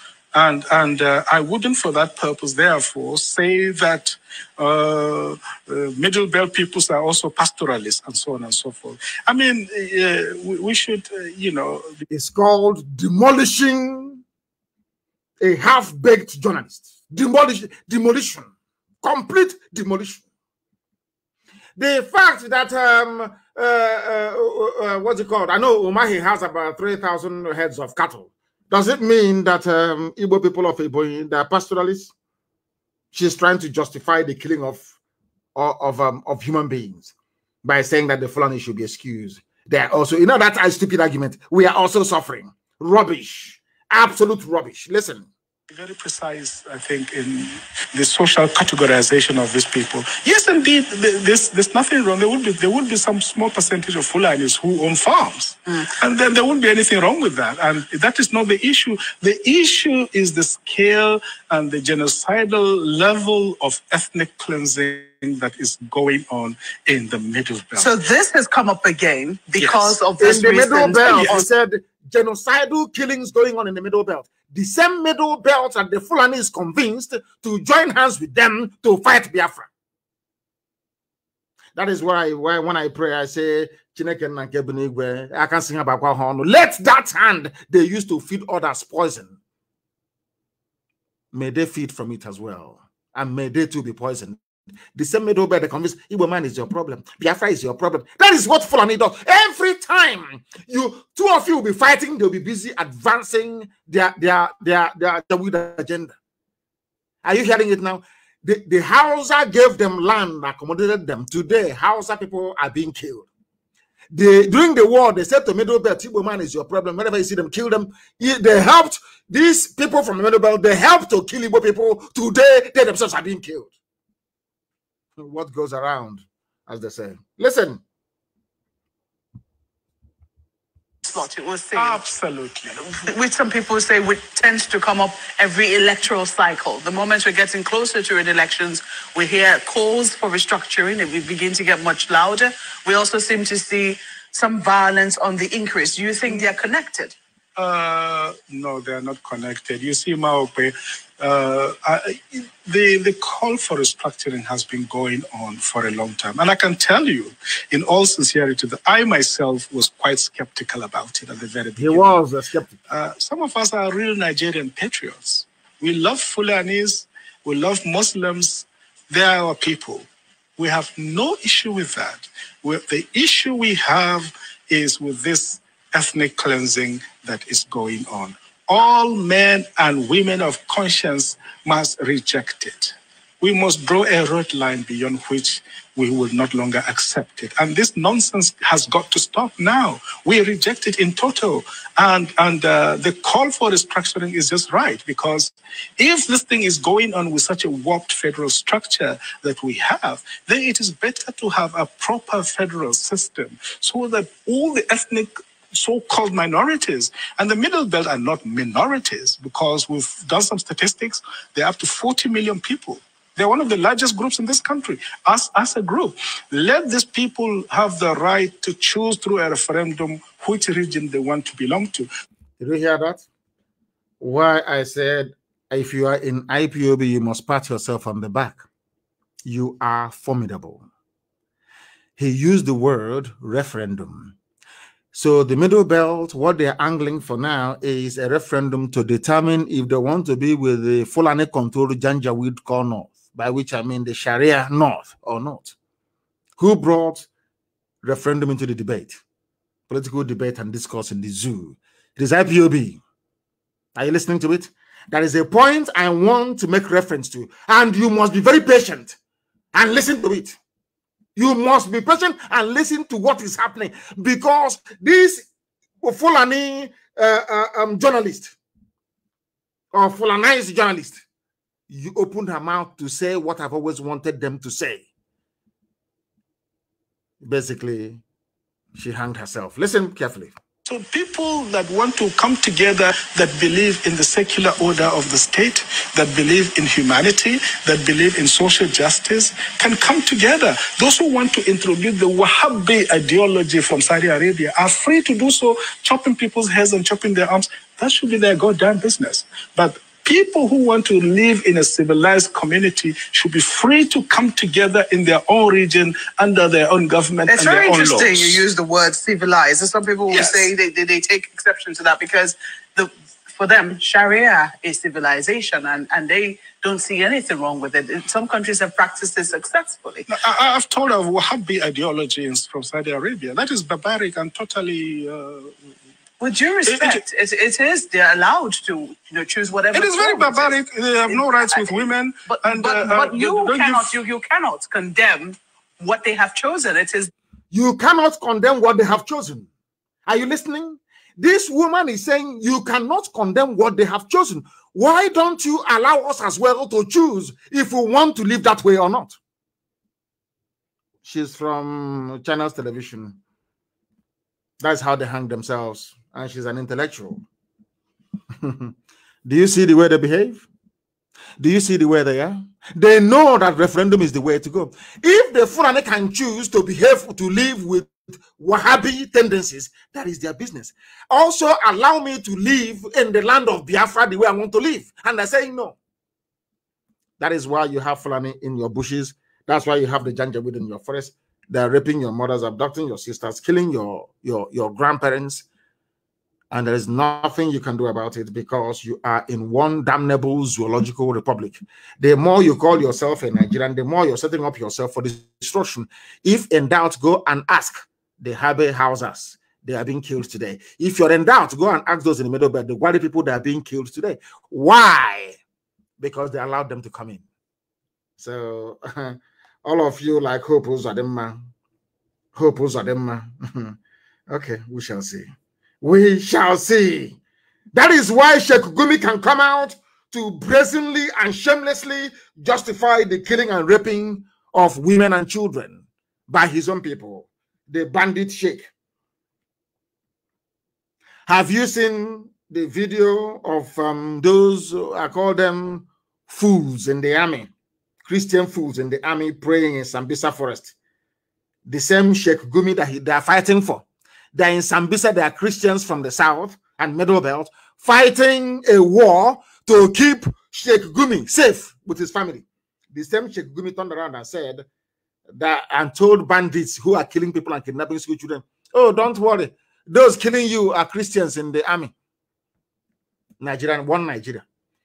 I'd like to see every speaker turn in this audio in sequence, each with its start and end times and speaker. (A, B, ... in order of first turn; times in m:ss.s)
0:00.3-0:12.0 A
0:12.1-0:14.2 B
0:15.4-0:18.5 B
0:19.0-0:20.2 B
0:21.8-0:32.1 B
0:33.1-0:34.9 B
0:35.5-0:37.1 B
0:37.6-0:45.3 B
0:45.7-1:08.0 A
1:07.8-1:11.4 C
1:09.6-1:10.0 A
1:10.2-1:19.7 B
1:11.1-1:11.4 A
1:21.7-1:29.3 B
1:31.3-1:34.4 B
1:34.9-1:46.1 B
1:47.2-1:53.3 B
1:54.1-2:03.7 B
2:05.2-2:07.8 B
2:11.0-2:12.0 C
2:11.7-2:12.8 A
2:12.8-2:27.1 C
2:27.6-2:42.2 A
2:41.8-2:42.8 B
2:42.9-3:42.1 A
3:42.6-3:43.2 B
3:44.2-3:48.6 B
3:49.4-3:50.8 B
3:52.2-3:54.4 B
3:55.1-4:05.7 B
4:06.6-4:07.3 B
4:08.0-4:09.2 B
4:09.9-4:13.0 B
4:13.9-4:19.2 B
4:19.7-4:20.6 B
4:21.4-4:25.5 B
4:26.0-4:28.5 B
4:29.9-4:31.2 B
4:31.9-4:35.1 B
4:37.4-4:38.2 B
4:38.9-4:40.5 B
4:40.9-5:08.6 A
5:07.5-5:20.3 C
5:10.3-5:10.7 A
5:20.3-5:25.8 A
5:26.4-5:37.3 C
5:26.8-5:27.2 A
5:29.9-5:34.1 A
5:37.7-5:39.7 B
5:40.2-5:49.4 B
5:51.2-5:53.4 B
5:54.8-5:57.4 B
5:58.6-5:58.9 B
5:59.4-6:00.6 B
6:01.6-6:16.0 B
6:17.4-6:25.6 B
6:26.7-6:45.6 B
6:46.2-6:47.4 B
6:48.4-6:51.6 B
6:52.5-6:54.0 B
6:54.5-6:55.5 B
6:56.0-6:57.4 B
6:57.9-7:08.9 B
7:11.5-7:17.7 B
7:18.2-7:20.9 B
7:21.8-7:34.8 B
7:35.5-7:42.1 B
7:43.6-7:44.6 B